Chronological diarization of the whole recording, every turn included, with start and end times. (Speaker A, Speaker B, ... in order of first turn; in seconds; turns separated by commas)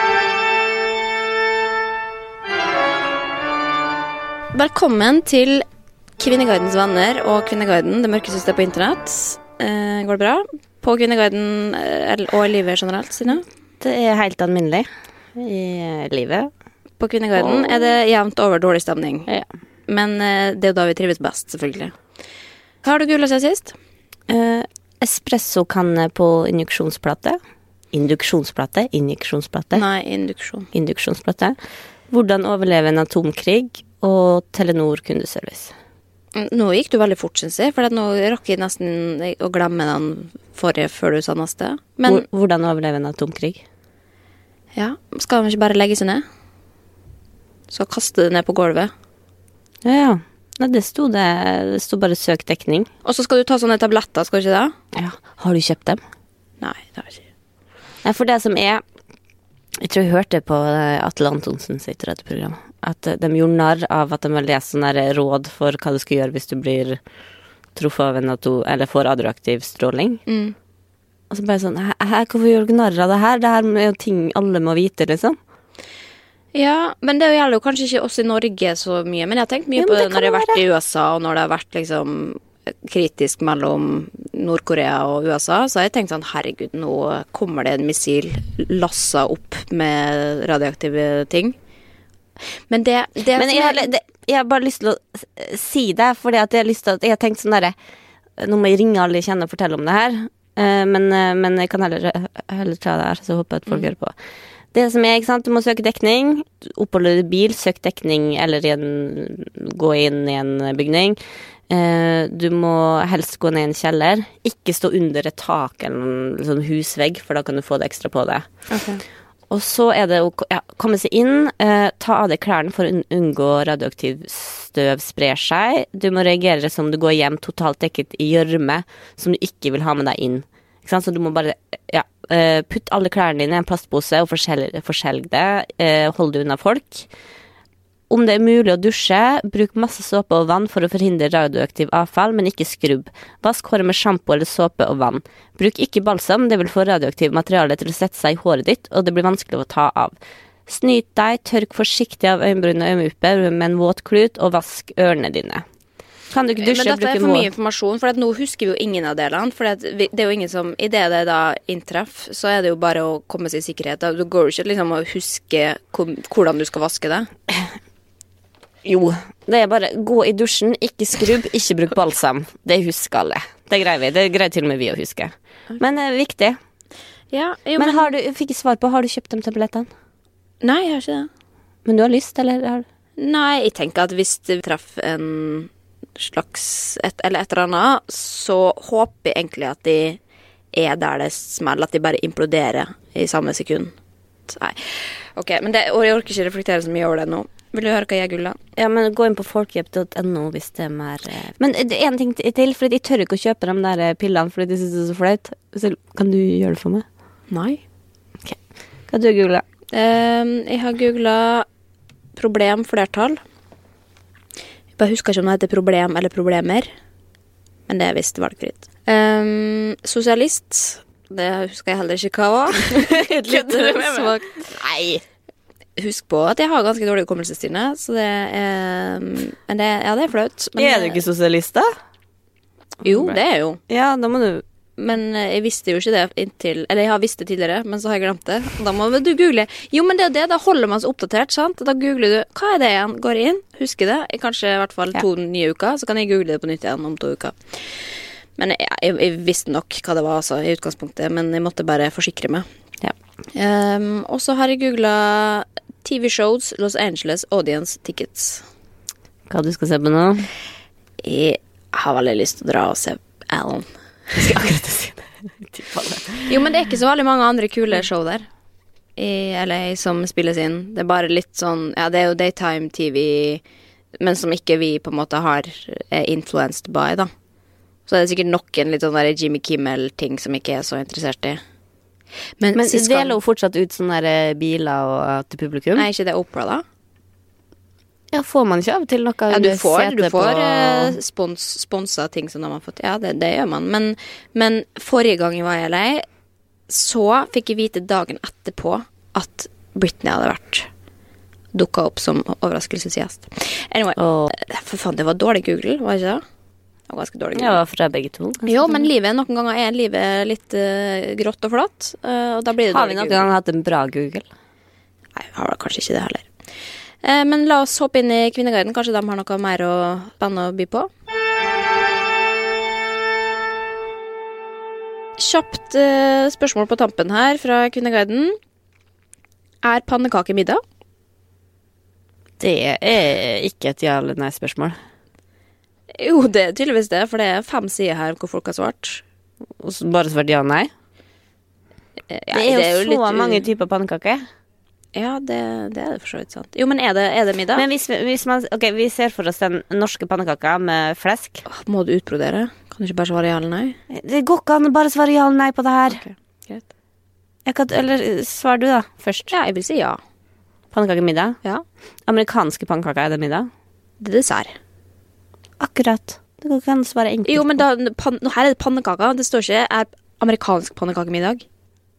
Speaker A: 4.5-5.6, Speaker A: 6.2-13.4, Speaker B: 13.8-16.5, Speaker A: 17.0-19.3, Speaker B: 17.4-17.9, Speaker A: 19.9-21.9, Speaker A: 22.8-23.7, Speaker B: 24.3-27.4, Speaker B: 27.9-29.8, Speaker A: 29.7-30.7, Speaker B: 30.7-31.6, Speaker B: 32.1-35.7, Speaker A: 36.3-42.2, Speaker B: 42.0-43.6, Speaker A: 44.7-46.2, Speaker A: 47.7-48.9, Speaker B: 49.8-52.9, Speaker A: 53.0-54.7, Speaker B: 54.9-56.0, Speaker A: 56.6-57.2, Speaker B: 58.0-58.8, Speaker B: 59.8-67.0, Speaker B: 67.7-70.2, Speaker A: 70.3-70.5, Speaker B: 71.3-75.4, Speaker A: 76.5-91.5, Speaker B: 79.8-80.6, Speaker A: 92.7-93.9, Speaker B: 93.3-97.7, Speaker B: 98.4-104.1, Speaker B: 104.7-111.2, Speaker B: 111.7-118.7, Speaker A: 118.7-119.0, Speaker B: 119.5-137.1, Speaker B: 138.1-150.1, Speaker B: 150.7-155.6, Speaker B: 156.3-157.5, Speaker A: 156.6-167.3, Speaker B: 168.8-176.6, Speaker A: 177.3-178.1, Speaker B: 177.8-179.9, Speaker A: 180.6-181.3, Speaker B: 181.8-182.8, Speaker A: 183.2-190.2, Speaker A: 190.7-193.9, Speaker A: 194.5-198.6, Speaker B: 198.8-207.0, Speaker A: 207.5-207.8, Speaker B: 209.1-209.6, Speaker A: 209.9-211.7, Speaker A: 212.3-213.4, Speaker A: 215.0-216.9, Speaker A: 217.9-224.8, Speaker B: 222.8-225.2, Speaker A: 226.0-231.2, Speaker B: 230.8-231.9, Speaker B: 233.0-234.6, Speaker A: 233.0-233.8, Speaker A: 235.0-248.0, Speaker A: 248.6-252.7, Speaker A: 253.5-258.6, Speaker B: 259.5-260.5, Speaker A: 261.2-264.4, Speaker B: 264.4-266.5, Speaker A: 266.4-268.5, Speaker A: 269.2-273.6, Speaker A: 274.2-277.3, Speaker A: 278.1-281.6, Speaker A: 282.6-283.3, Speaker B: 282.7-286.1, Speaker A: 286.0-286.8, Speaker B: 288.3-291.2, Speaker A: 289.5-296.2, Speaker A: 296.9-300.9, Speaker A: 301.7-306.4, Speaker B: 304.2-304.5, Speaker A: 307.1-307.8, Speaker B: 307.5-309.1, Speaker A: 308.7-313.5, Speaker B: 312.9-314.4, Speaker A: 315.4-316.5, Speaker A: 317.2-321.1, Speaker A: 325.4-328.6, Speaker A: 329.8-330.8, Speaker B: 332.6-335.0, Speaker A: 336.1-339.2, Speaker B: 339.8-340.9, Speaker A: 342.3-343.6, Speaker B: 342.5-344.4, Speaker A: 345.1-347.8, Speaker B: 347.7-351.6, Speaker A: 351.7-354.0, Speaker B: 354.1-356.2, Speaker A: 356.1-356.8, Speaker B: 357.6-359.5, Speaker A: 359.5-360.2, Speaker B: 360.9-361.6, Speaker B: 362.3-363.7, Speaker A: 364.2-364.7, Speaker B: 365.8-367.8, Speaker A: 367.5-371.6